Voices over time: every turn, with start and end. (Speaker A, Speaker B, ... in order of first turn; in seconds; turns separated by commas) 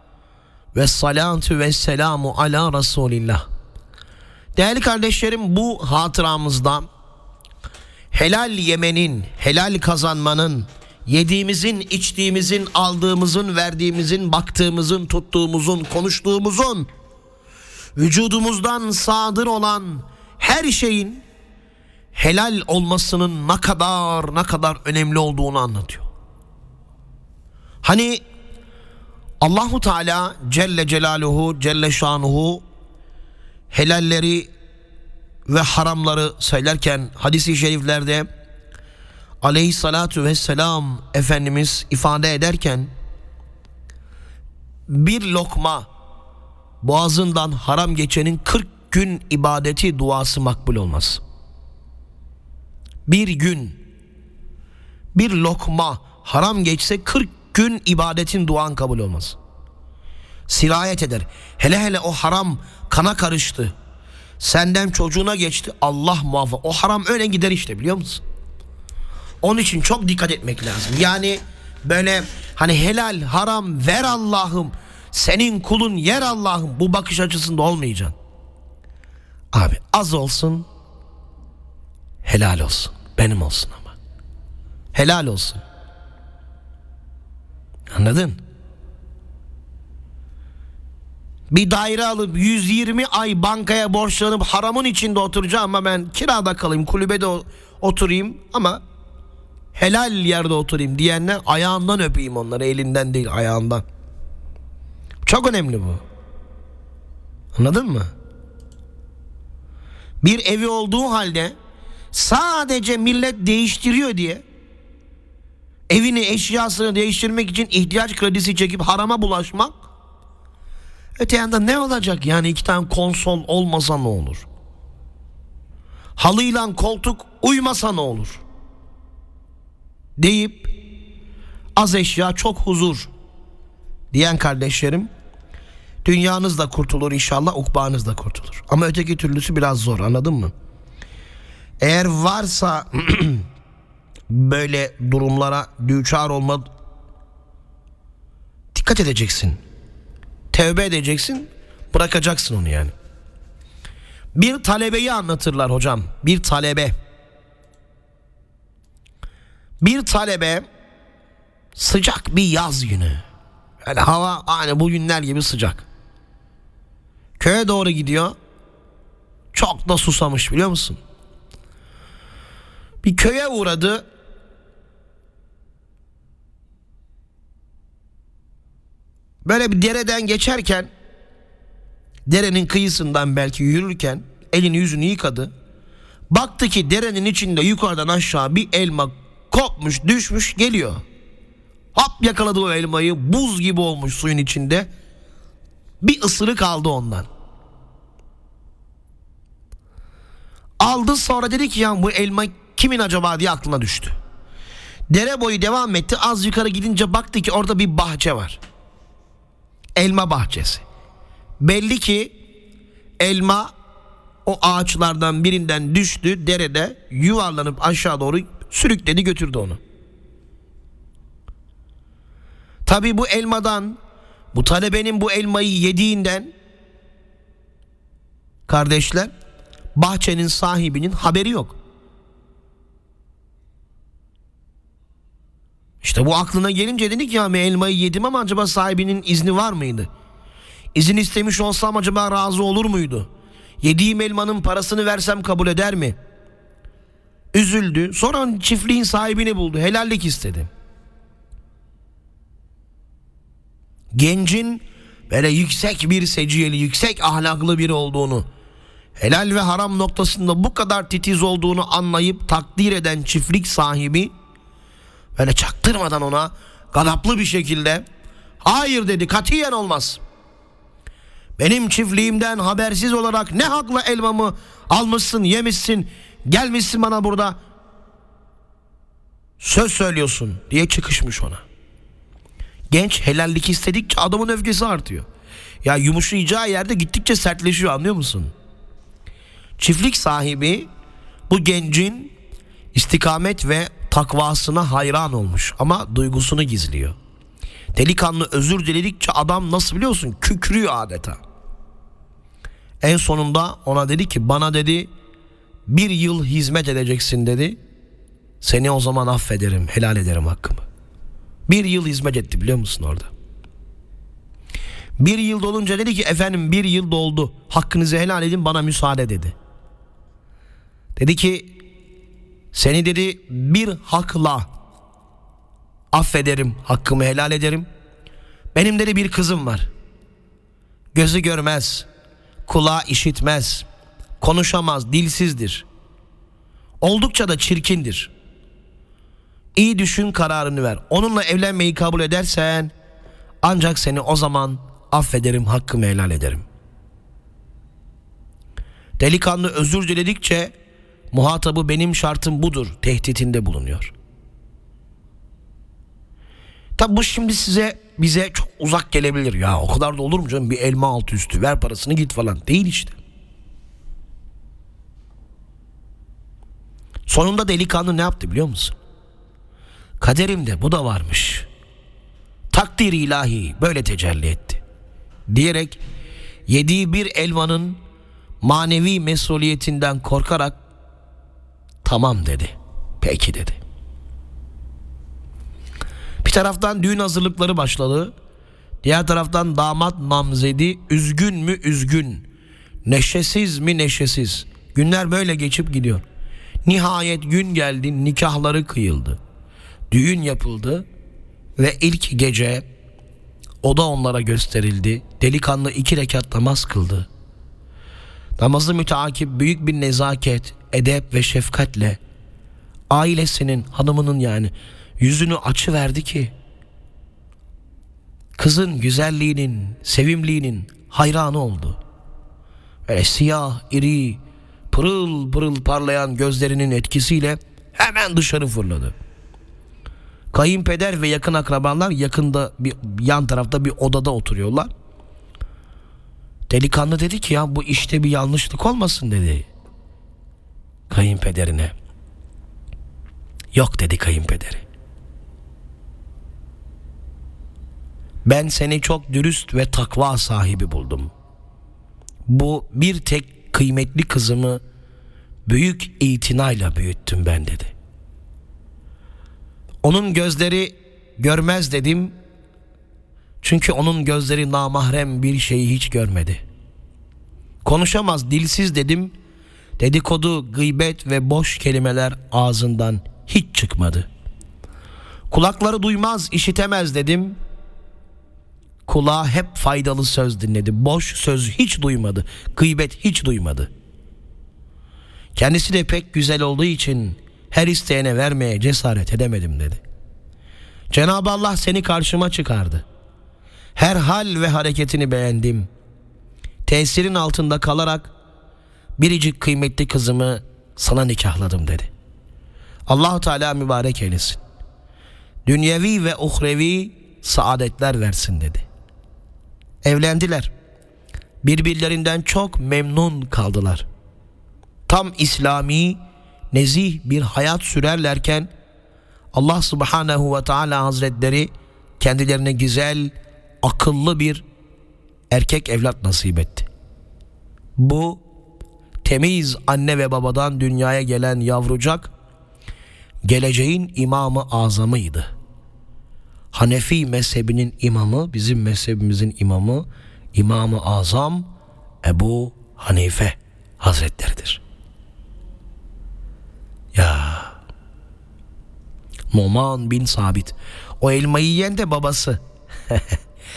Speaker A: 0.7-3.4, Speaker A: 4.5-6.8, Speaker A: 8.1-16.9, Speaker A: 17.9-21.2, Speaker A: 22.1-26.1, Speaker A: 27.8-28.2, Speaker A: 29.4-32.6, Speaker A: 33.7-34.5, Speaker A: 35.5-38.3, Speaker A: 39.4-42.9, Speaker A: 44.9-45.9, Speaker A: 46.8-51.2, Speaker A: 53.1-53.8, Speaker A: 55.1-59.4, Speaker A: 60.5-63.7, Speaker A: 64.4-68.2, Speaker A: 69.4-78.1, Speaker A: 79.5-80.7, Speaker A: 82.2-83.9, Speaker A: 84.9-85.6, Speaker A: 87.9-88.4, Speaker A: 91.5-98.8, Speaker A: 99.7-103.8, Speaker A: 105.2-106.0, Speaker A: 107.5-108.1, Speaker A: 110.2-111.5, Speaker A: 112.1-114.4, Speaker A: 115.9-119.8, Speaker A: 121.2-124.5, Speaker A: 126.2-128.4, Speaker A: 130.2-130.7, Speaker A: 131.8-133.1, Speaker A: 134.1-135.1, Speaker A: 136.0-140.5, Speaker A: 141.8-143.4, Speaker A: 144.3-146.7, Speaker A: 148.7-149.6, Speaker A: 150.5-152.9, Speaker A: 154.3-156.9, Speaker A: 159.8-160.7, Speaker A: 161.8-163.2, Speaker A: 163.8-165.8, Speaker A: 167.4-168.3, Speaker A: 169.5-171.0, Speaker A: 173.0-174.0, Speaker A: 179.4-180.9, Speaker A: 182.3-185.5, Speaker A: 186.3-191.0, Speaker A: 191.9-194.9, Speaker A: 196.0-197.3, Speaker A: 200.8-204.1, Speaker A: 205.1-208.6, Speaker A: 209.9-210.8, Speaker A: 211.6-212.3, Speaker A: 213.2-213.7, Speaker A: 214.4-219.8, Speaker A: 222.8-224.0, Speaker A: 224.5-226.5, Speaker A: 228.7-229.3, Speaker A: 229.9-231.8, Speaker A: 236.0-240.1, Speaker A: 240.9-243.3, Speaker A: 243.8-246.2, Speaker A: 247.5-250.7, Speaker A: 254.1-258.4, Speaker A: 259.2-264.3, Speaker A: 265.4-268.0, Speaker A: 268.6-270.2, Speaker A: 271.6-277.6, Speaker A: 279.6-281.6, Speaker A: 282.9-285.3, Speaker A: 285.8-288.5, Speaker A: 289.8-290.9, Speaker A: 291.5-292.3, Speaker A: 292.9-297.1, Speaker A: 297.9-301.4, Speaker A: 303.0-305.1, Speaker A: 305.9-307.8, Speaker A: 308.6-310.8, Speaker A: 311.7-313.3, Speaker A: 315.2-319.5, Speaker A: 321.1-321.7, Speaker A: 322.7-324.7, Speaker A: 326.1-327.9, Speaker A: 328.7-329.9, Speaker A: 331.1-332.1, Speaker A: 332.6-333.8, Speaker A: 334.4-335.9, Speaker A: 337.0-338.3, Speaker A: 339.8-342.9, Speaker A: 343.6-346.6, Speaker A: 349.2-350.7, Speaker A: 351.3-354.1, Speaker A: 357.0-363.2, Speaker A: 367.3-368.9, Speaker A: 370.2-371.7, Speaker A: 372.7-374.8, Speaker A: 375.5-376.0, Speaker A: 376.7-378.0, Speaker A: 378.6-380.8, Speaker A: 382.0-383.8, Speaker A: 386.4-388.3, Speaker A: 389.0-392.4, Speaker A: 393.0-396.2, Speaker A: 396.8-399.4, Speaker A: 400.1-401.1, Speaker A: 401.8-402.9, Speaker A: 403.8-407.3, Speaker A: 408.6-412.2, Speaker A: 413.1-416.5, Speaker A: 418.6-422.0, Speaker A: 423.1-424.4, Speaker A: 424.9-429.1, Speaker A: 430.5-434.9, Speaker A: 436.7-439.7, Speaker A: 441.1-441.9, Speaker A: 443.7-444.8, Speaker A: 448.4-451.3, Speaker A: 452.5-454.8, Speaker A: 455.6-457.9, Speaker A: 460.0-462.3, Speaker A: 463.6-466.6, Speaker A: 467.8-469.3, Speaker A: 470.0-474.3, Speaker A: 475.5-477.6, Speaker A: 479.1-483.9, Speaker A: 485.5-490.0, Speaker A: 491.1-493.0, Speaker A: 493.9-495.9, Speaker A: 496.9-498.3, Speaker A: 499.2-502.1, Speaker A: 503.1-504.6, Speaker A: 505.6-508.9, Speaker A: 510.0-510.7, Speaker A: 511.6-514.0, Speaker A: 515.1-516.2, Speaker A: 516.7-518.7, Speaker A: 519.5-524.6, Speaker A: 525.5-526.9, Speaker A: 528.0-528.4, Speaker A: 529.2-532.3, Speaker A: 533.4-535.5, Speaker A: 536.7-541.7, Speaker A: 542.2-544.8, Speaker A: 547.1-547.7, Speaker A: 549.5-553.4